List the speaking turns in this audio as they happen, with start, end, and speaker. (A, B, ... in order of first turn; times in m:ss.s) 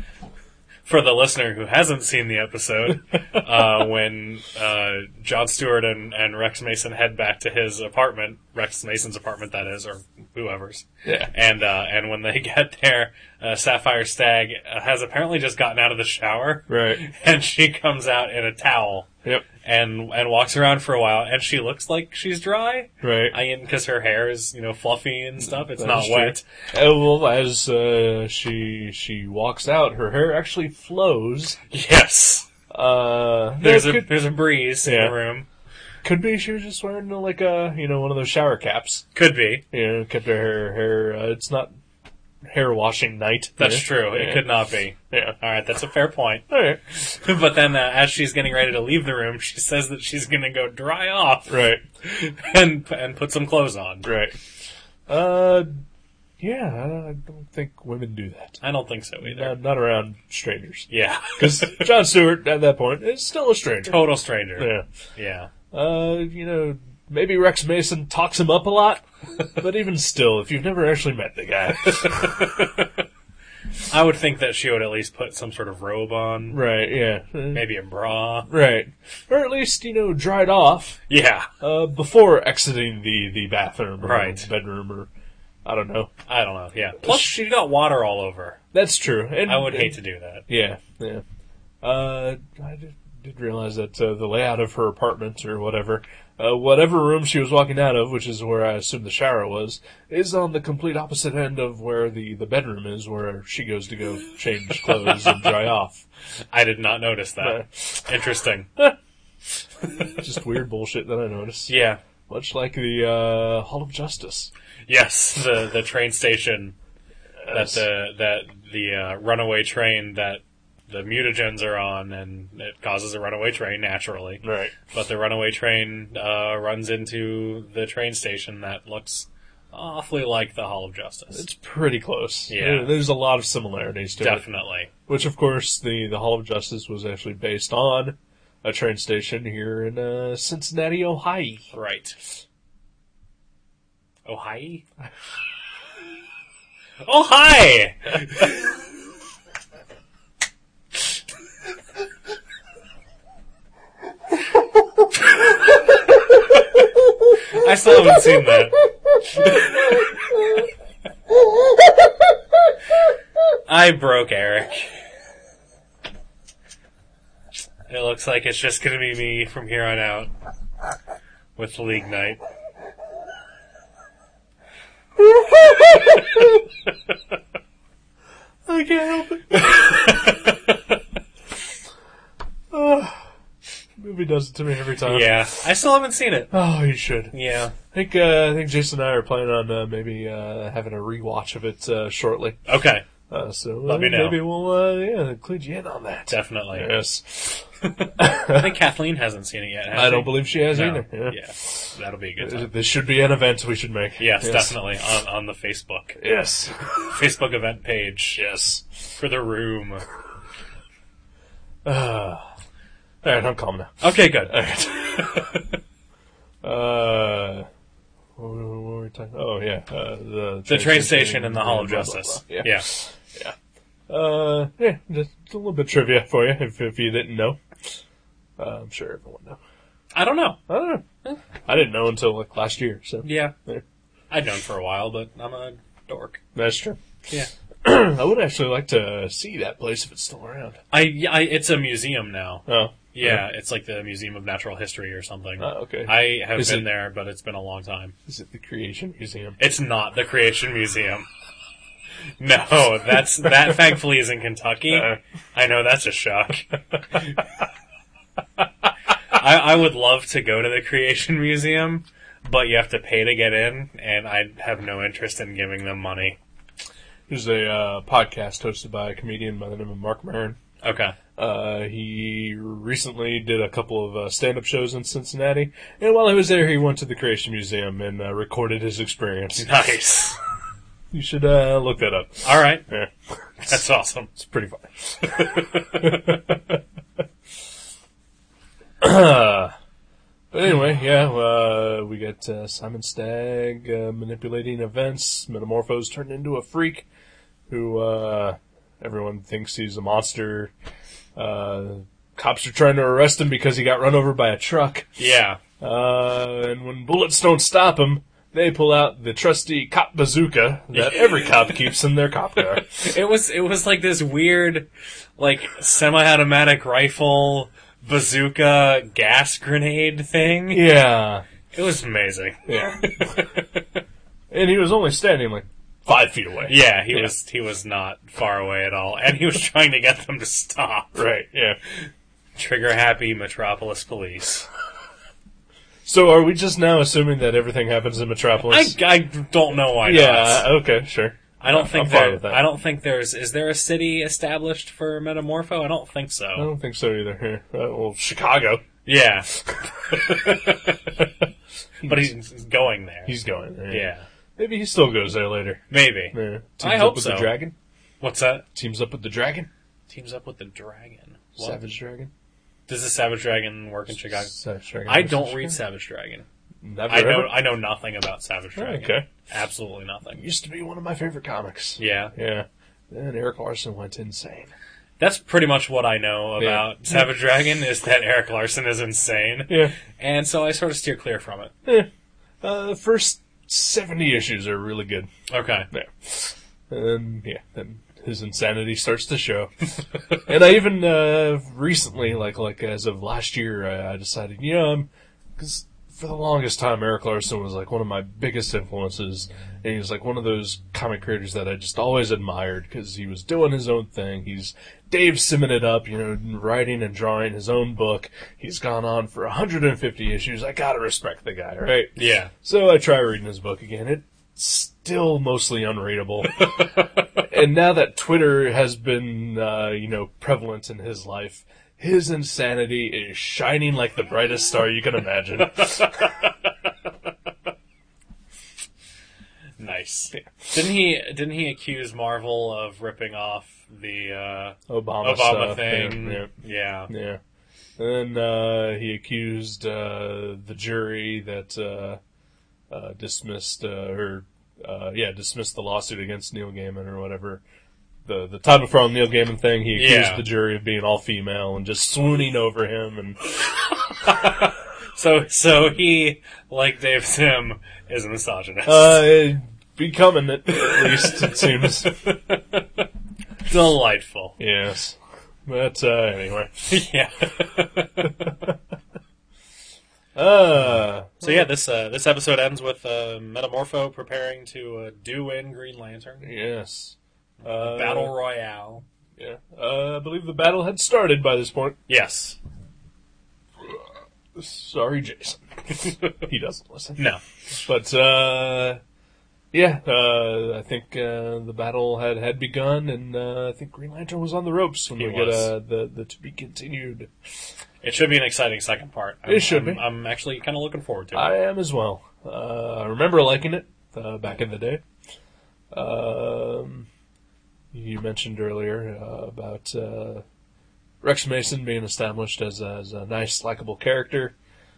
0:00.8-0:19.1 A
0:11.0-0:11.3 B
0:16.7-0:17.0 B
0:19.6-0:26.4 A
0:23.0-0:23.4 B
0:25.4-0:31.6 B
0:31.7-0:32.5 A
0:32.7-0:34.1 B
0:33.6-0:35.5 A
0:34.8-0:35.1 B
0:36.0-0:39.0 B
0:39.1-0:39.6 A
0:39.7-0:41.7 B
0:42.4-0:44.4 B
0:43.6-0:54.1 A
0:45.1-0:45.4 B
0:46.5-0:46.8 B
0:51.5-0:51.8 B
0:54.0-0:54.4 B
0:55.1-0:55.8 B
0:56.4-0:58.6 B
0:58.6-0:59.6 A
0:59.2-1:04.8 B
1:00.9-1:01.9 A
1:03.8-1:05.5 A
1:05.7-1:12.7 B
1:12.0-1:13.0 A
1:13.9-1:16.6 A
1:16.5-1:17.6 B
1:17.5-1:18.5 A
1:18.5-1:21.0 B
1:21.1-1:21.5 A
1:21.6-1:25.1 B
1:24.0-1:24.5 A
1:25.6-1:26.1 B
1:26.3-1:28.6 A
1:27.0-1:27.3 B
1:28.7-1:30.0 B
1:29.4-1:30.4 A
1:30.5-1:31.2 B
1:31.8-1:46.0 B
1:46.5-1:48.7 A
1:47.4-1:48.1 B
1:50.1-1:51.7 B
1:51.7-1:52.0 A
1:52.3-1:54.5 B
1:54.9-1:56.7 A
1:57.4-1:57.8 B
1:57.5-2:11.4 A
2:04.4-2:04.8 B
2:11.3-2:14.4 B
2:12.5-2:12.9 A
2:14.2-2:14.9 A
2:15.1-2:21.7 B
2:21.7-2:22.2 A
2:24.3-2:24.8 A
2:27.0-2:28.7 A
2:37.5-2:38.8 A
2:43.7-2:44.9 A
2:47.9-2:50.3 A
2:51.6-2:52.4 A
2:55.2-2:56.6 B
2:58.6-3:00.4 B
3:00.1-3:00.4 A
3:02.7-3:03.2 B
3:04.0-3:05.3 B
3:05.0-3:06.5 A
3:06.5-3:12.6 B
3:07.3-3:07.7 A
3:12.7-3:13.0 A
3:13.3-3:17.6 B
3:13.8-3:14.4 A
3:16.3-3:16.9 A
3:17.8-3:22.7 A
3:18.2-3:18.8 B
3:19.9-3:24.8 B
3:24.2-3:26.2 A
3:26.2-3:26.8 B
3:26.8-3:28.4 A
3:28.4-3:28.8 B
3:29.2-3:30.0 A
3:31.8-3:32.5 B
3:33.2-3:35.7 B
3:34.0-3:34.5 A
3:36.6-3:37.7 B
3:38.4-3:43.5 B
3:40.7-3:42.9 A
3:44.1-3:47.6 B
3:48.6-3:49.6 B
3:50.1-3:50.6 A
3:50.7-3:51.0 B
3:51.6-3:53.8 B
3:53.2-3:53.5 A
3:54.3-3:56.4 A
3:56.5-3:57.0 B
3:57.8-4:00.8 B
4:00.9-4:08.1 A
4:02.7-4:03.4 B
4:05.6-4:06.9 B
4:08.3-4:09.6 B
4:09.6-4:11.3 A
4:12.4-4:17.4 A
4:14.9-4:15.2 B
4:19.3-4:26.4 A
4:27.3-4:30.6 B
4:30.8-4:31.2 A
4:31.4-4:39.6 B
4:39.6-4:40.4 A
4:41.1-4:43.8 B
4:42.4-4:42.8 A
4:43.6-4:44.3 A
4:44.4-4:46.8 B
4:49.0-4:49.7 B
4:50.5-4:57.0 B
4:57.7-5:00.7 B
5:01.4-5:05.1 B
5:05.2-5:05.6 A
5:05.8-5:13.1 B
5:10.9-5:11.5 A
5:12.8-5:20.9 A
5:20.7-5:21.4 B
5:21.7-5:23.8 A
5:22.6-5:23.4 B
5:24.5-5:27.3 B
5:26.7-5:31.2 A
5:31.1-5:31.8 B
5:32.6-5:34.7 A
5:36.0-5:39.0 B
5:38.6-5:40.7 A
5:40.0-5:42.7 B
5:41.6-5:46.7 A
5:46.6-5:48.8 B
5:49.0-5:51.2 A
5:52.0-5:52.3 B
5:52.0-5:53.3 A
5:53.2-5:57.7 B
5:53.9-5:54.2 A
5:55.9-5:57.5 A
5:58.2-5:58.6 A
5:58.7-5:59.7 B
6:00.1-6:01.8 A
6:01.6-6:02.3 B
6:02.9-6:04.5 A
6:04.3-6:05.8 B
6:05.0-6:06.4 A
6:06.8-6:07.6 B
6:07.1-6:10.4 A
6:08.8-6:09.3 B
6:10.4-6:14.7 B
6:12.0-6:12.3 A
6:15.2-6:21.7 A
6:16.6-6:17.3 B
6:19.7-6:19.9 B
6:22.6-6:25.3 B
6:25.5-6:25.9 A
6:25.9-6:29.8 B
6:30.4-7:06.2 B
6:52.2-6:52.5 A
7:05.8-7:06.2 A
7:09.8-7:17.1 A
7:14.9-7:16.5 B
7:17.1-7:17.4 B
7:18.0-7:22.2 B
7:22.9-7:27.6 B
7:28.2-7:33.4 B
7:29.9-7:30.4 A
7:34.2-7:39.2 A
7:38.8-7:42.1 B
7:40.8-7:43.0 A
7:43.6-7:44.6 A
7:44.6-7:46.8 B
7:46.9-7:48.7 A
7:50.3-7:51.6 B
7:51.4-7:56.5 A
7:56.4-7:58.3 B
7:57.6-7:59.0 A
7:59.4-8:02.0 B
8:02.1-8:02.6 A
8:03.8-8:07.2 B
8:07.7-8:09.0 B
8:09.7-8:17.3 B
8:15.1-8:15.7 A
8:18.0-8:21.5 A
8:19.4-8:20.0 B
8:21.3-8:25.0 B
8:25.9-8:27.1 B
8:27.9-8:30.4 B
8:31.2-8:34.5 B